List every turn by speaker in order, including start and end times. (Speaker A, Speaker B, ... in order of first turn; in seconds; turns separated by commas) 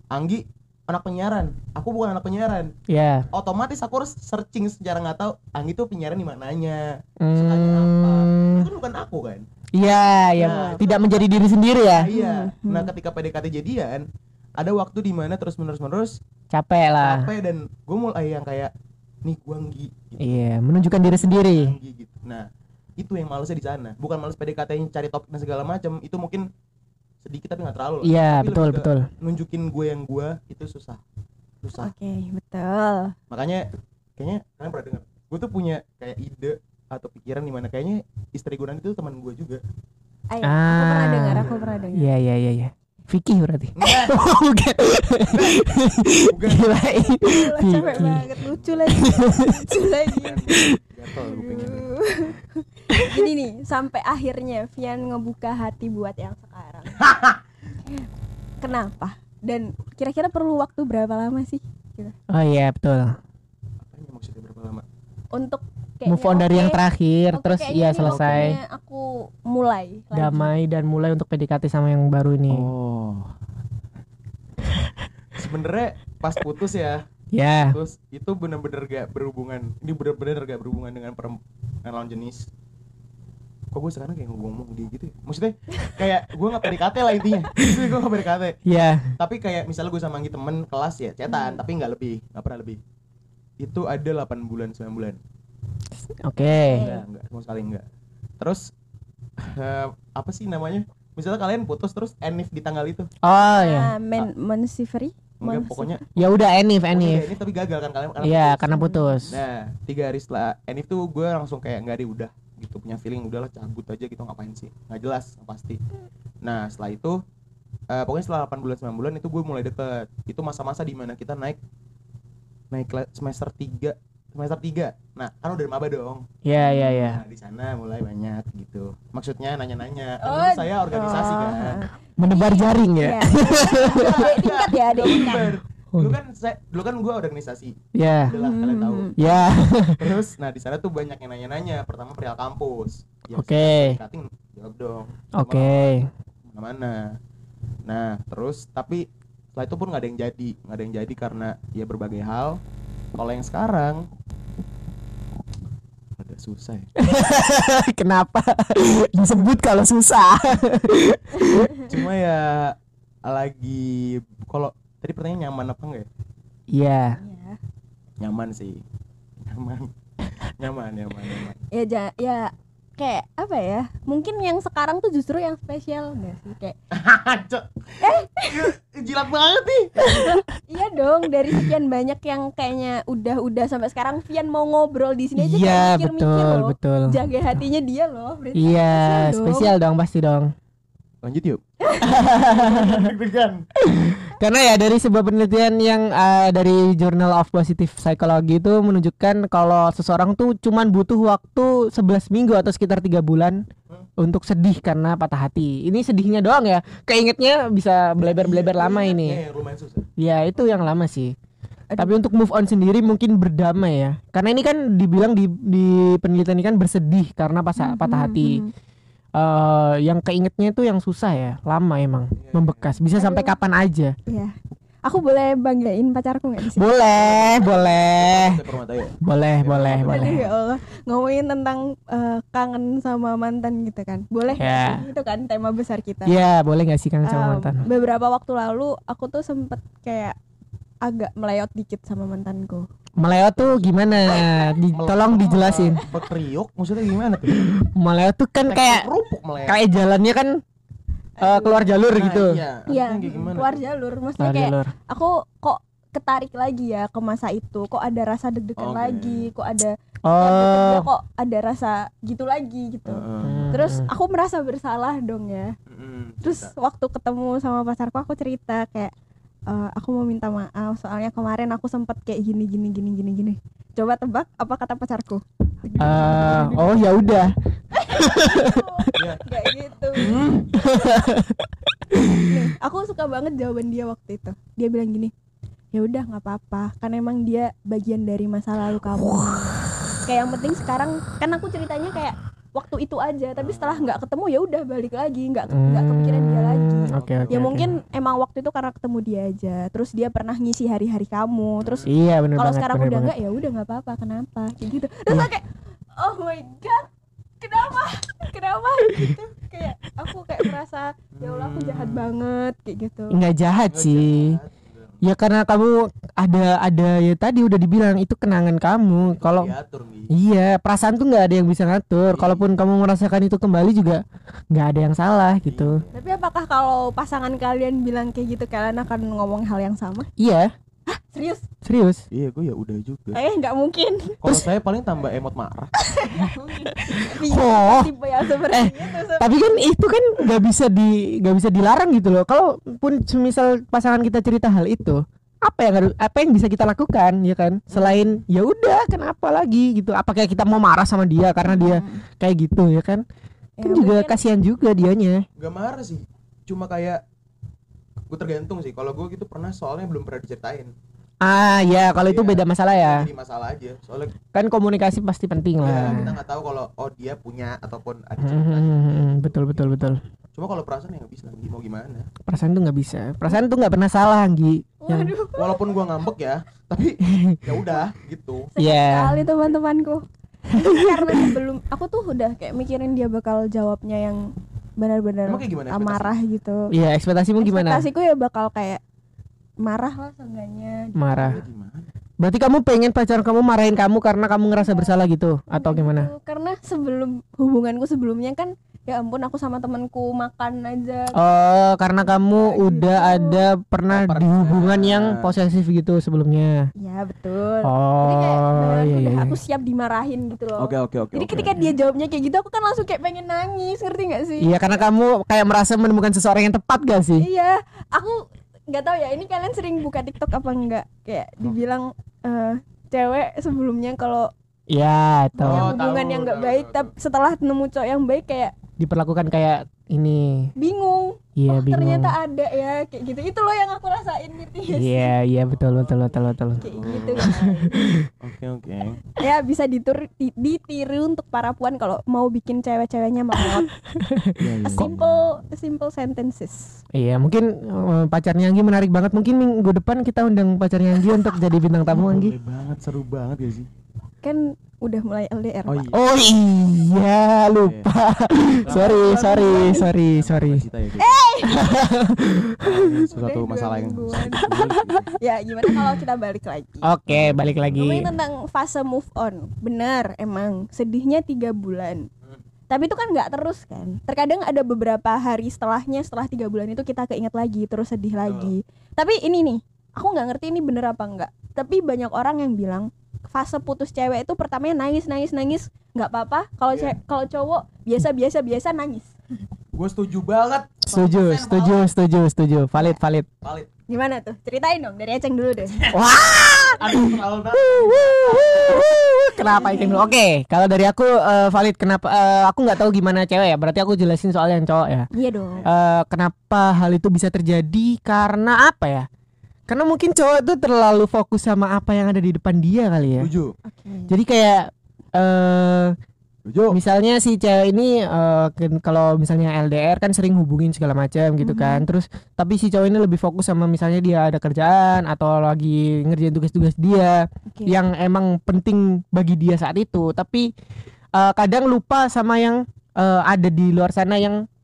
Speaker A: 0.1-2.7, Speaker B: 2.9-3.3, Speaker A: 3.3-9.5, Speaker B: 7.2-8.7, Speaker B: 9.8-12.1, Speaker C: 10.4-10.8, Speaker A: 10.4-11.3, Speaker A: 11.8-14.1, Speaker C: 12.1-12.9, Speaker A: 14.6-16.2, Speaker B: 16.5-17.3, Speaker A: 17.0-18.7, Speaker A: 19.2-22.5, Speaker B: 20.2-21.8, Speaker A: 23.0-26.5, Speaker A: 27.2-31.0, Speaker B: 28.0-29.1, Speaker A: 31.6-31.9, Speaker C: 31.8-33.1, Speaker A: 33.3-39.6, Speaker C: 40.3-42.1, Speaker B: 40.4-48.2, Speaker A: 41.3-41.9, Speaker A: 43.8-44.2, Speaker A: 45.3-46.8, Speaker C: 47.2-50.5, Speaker A: 47.7-49.4, Speaker B: 48.9-49.7, Speaker A: 50.0-52.4, Speaker B: 50.5-50.8, Speaker C: 51.2-57.0, Speaker A: 57.0-57.4, Speaker C: 58.6-62.1, Speaker B: 62.3-63.2, Speaker A: 63.8-64.8, Speaker C: 65.3-66.8, Speaker B: 66.1-68.6, Speaker C: 67.3-70.5, Speaker A: 68.0-68.5, Speaker B: 70.1-72.7, Speaker A: 72.5-73.3, Speaker A: 75.4-77.0, Speaker B: 77.3-77.8, Speaker A: 77.7-82.5, Speaker A: 83.7-88.6, Speaker B: 88.7-89.1, Speaker A: 89.2-92.8, Speaker C: 91.3-91.6, Speaker A: 93.6-95.2, Speaker B: 96.1-96.8, Speaker C: 96.7-97.0, Speaker A: 96.8-97.8, Speaker A: 98.4-98.7, Speaker A: 99.4-103.1, Speaker B: 103.2-104.0, Speaker C: 103.5-106.0, Speaker A: 105.4-106.3, Speaker B: 106.2-107.3, Speaker A: 106.9-108.8, Speaker B: 108.2-109.4, Speaker C: 108.7-109.3, Speaker A: 109.3-115.8, Speaker A: 116.4-117.2, Speaker A: 117.9-121.6, Speaker A: 122.7-126.3, Speaker B: 126.5-127.2, Speaker C: 126.6-127.1, Speaker A: 126.9-131.9, Speaker C: 130.2-135.6, Speaker B: 132.2-134.4, Speaker A: 133.8-139.3, Speaker B: 137.9-138.3, Speaker C: 138.3-139.2, Speaker B: 139.2-140.1, Speaker A: 139.9-146.0, Speaker B: 143.3-144.0, Speaker B: 145.4-146.1, Speaker A: 146.5-147.2, Speaker A: 147.9-152.6, Speaker A: 153.2-154.1, Speaker A: 156.2-156.9, Speaker B: 157.0-161.8, Speaker A: 161.8-166.1, Speaker B: 166.7-167.2, Speaker C: 167.2-167.6, Speaker A: 168.2-168.8, Speaker A: 169.4-169.9, Speaker A: 170.4-171.6, Speaker C: 171.7-176.8, Speaker A: 176.9-180.1, Speaker C: 178.0-178.7, Speaker B: 180.1-180.4, Speaker C: 180.1-189.7, Speaker B: 185.4-187.2, Speaker B: 188.6-190.5, Speaker A: 191.2-193.6, Speaker C: 191.8-192.1, Speaker B: 192.0-193.1, Speaker B: 193.8-203.6, Speaker B: 204.2-209.4, Speaker A: 208.2-210.1, Speaker B: 210.2-211.3, Speaker C: 211.9-212.3, Speaker B: 212.0-218.6, Speaker C: 217.8-218.7, Speaker B: 219.4-224.1, Speaker A: 222.4-223.0, Speaker C: 223.2-223.5, Speaker C: 224.3-226.8, Speaker B: 226.8-228.6, Speaker A: 227.1-230.5, Speaker B: 229.2-230.4, Speaker C: 230.0-236.3, Speaker B: 234.6-235.0, Speaker B: 236.3-237.8, Speaker C: 237.2-240.4, Speaker C: 241.0-242.9, Speaker B: 243.2-246.0, Speaker A: 243.6-247.6, Speaker B: 247.6-249.1, Speaker A: 248.7-249.8, Speaker B: 249.7-250.6, Speaker C: 251.4-251.9, Speaker B: 251.4-252.6, Speaker A: 252.1-253.8, Speaker C: 252.9-265.7, Speaker B: 254.4-254.9, Speaker A: 258.8-259.5, Speaker B: 260.3-261.1, Speaker A: 263.1-263.7, Speaker B: 263.4-264.1, Speaker A: 265.9-266.7, Speaker C: 266.4-269.1, Speaker C: 269.7-277.4, Speaker B: 276.0-277.5, Speaker C: 277.9-280.3, Speaker B: 278.1-279.1, Speaker A: 279.1-279.4, Speaker A: 280.2-280.7, Speaker B: 280.7-282.5, Speaker C: 282.4-285.3, Speaker C: 285.9-305.7, Speaker B: 289.1-289.7, Speaker A: 293.6-294.2, Speaker B: 295.7-297.9, Speaker A: 297.1-297.6, Speaker A: 301.8-302.1, Speaker B: 302.1-303.3, Speaker C: 306.2-307.1, Speaker C: 307.6-313.4, Speaker A: 311.4-312.2, Speaker B: 313.3-314.6, Speaker A: 313.9-315.2, Speaker B: 315.2-319.7, Speaker A: 319.1-320.3, Speaker B: 320.3-326.0, Speaker A: 322.3-322.6, Speaker A: 325.6-326.2, Speaker C: 326.1-330.3, Speaker B: 330.4-330.7, Speaker C: 331.1-331.7, Speaker B: 331.8-332.2, Speaker A: 332.3-333.4, Speaker C: 333.3-334.4, Speaker A: 334.4-335.9, Speaker C: 336.0-339.6, Speaker B: 337.2-338.1, Speaker B: 338.7-353.2, Speaker A: 347.9-348.3, Speaker C: 351.7-352.2, Speaker C: 353.8-354.4, Speaker B: 353.8-355.4, Speaker A: 355.6-357.2, Speaker A: 358.3-360.9, Speaker B: 361.4-363.3, Speaker A: 362.1-364.4, Speaker B: 364.5-366.3, Speaker A: 365.8-369.9, Speaker B: 368.4-370.2, Speaker A: 370.6-372.3, Speaker B: 372.5-375.3, Speaker C: 375.0-375.8, Speaker A: 375.6-378.7, Speaker B: 377.3-377.6, Speaker C: 378.8-386.9, Speaker B: 378.8-379.5, Speaker B: 380.8-381.5, Speaker A: 385.5-386.3, Speaker B: 386.9-388.1, Speaker C: 387.6-389.0, Speaker C: 389.8-391.6, Speaker B: 391.2-391.6, Speaker A: 391.4-392.1, Speaker B: 392.4-396.3, Speaker C: 394.7-395.1, Speaker C: 395.8-401.4, Speaker B: 401.4-406.9, Speaker C: 402.4-403.6, Speaker A: 404.1-405.5, Speaker C: 407.0-414.7, Speaker B: 407.8-409.6, Speaker A: 410.8-411.9, Speaker B: 414.6-417.4, Speaker C: 417.4-424.5, Speaker B: 424.9-425.9, Speaker C: 425.6-428.7, Speaker A: 425.6-427.1, Speaker B: 429.0-430.7, Speaker C: 430.8-435.3, Speaker B: 431.6-432.4, Speaker B: 434.9-438.3, Speaker A: 435.7-437.5, Speaker C: 436.8-437.9, Speaker A: 438.4-439.2, Speaker C: 439.4-443.9, Speaker B: 444.1-445.1, Speaker A: 444.6-445.4, Speaker C: 444.9-447.0, Speaker B: 447.1-452.6, Speaker A: 452.1-453.9, Speaker C: 454.4-456.0, Speaker A: 455.9-456.2, Speaker B: 456.1-460.8, Speaker A: 457.8-458.1, Speaker A: 458.9-461.7, Speaker C: 458.9-460.1, Speaker C: 461.2-461.9, Speaker B: 461.7-463.3, Speaker A: 462.8-465.4, Speaker C: 463.3-464.8, Speaker B: 464.7-465.1, Speaker C: 465.4-467.1, Speaker B: 467.0-468.3, Speaker A: 467.3-468.0, Speaker C: 467.9-472.3, Speaker C: 472.9-489.3, Speaker A: 478.4-478.7, Speaker A: 489.9-492.1, Speaker B: 491.1-493.5, Speaker A: 493.6-493.9, Speaker C: 494.1-496.0, Speaker B: 496.1-505.3, Speaker A: 497.0-499.0, Speaker C: 499.6-500.3, Speaker C: 505.3-505.8, Speaker B: 505.9-509.3, Speaker B: 509.9-513.5, Speaker A: 513.4-513.8, Speaker C: 513.9-514.3, Speaker B: 514.3-516.1, Speaker A: 516.7-517.0, Speaker B: 516.9-530.7, Speaker C: 521.6-522.1, Speaker C: 527.7-528.0, Speaker B: 531.4-534.6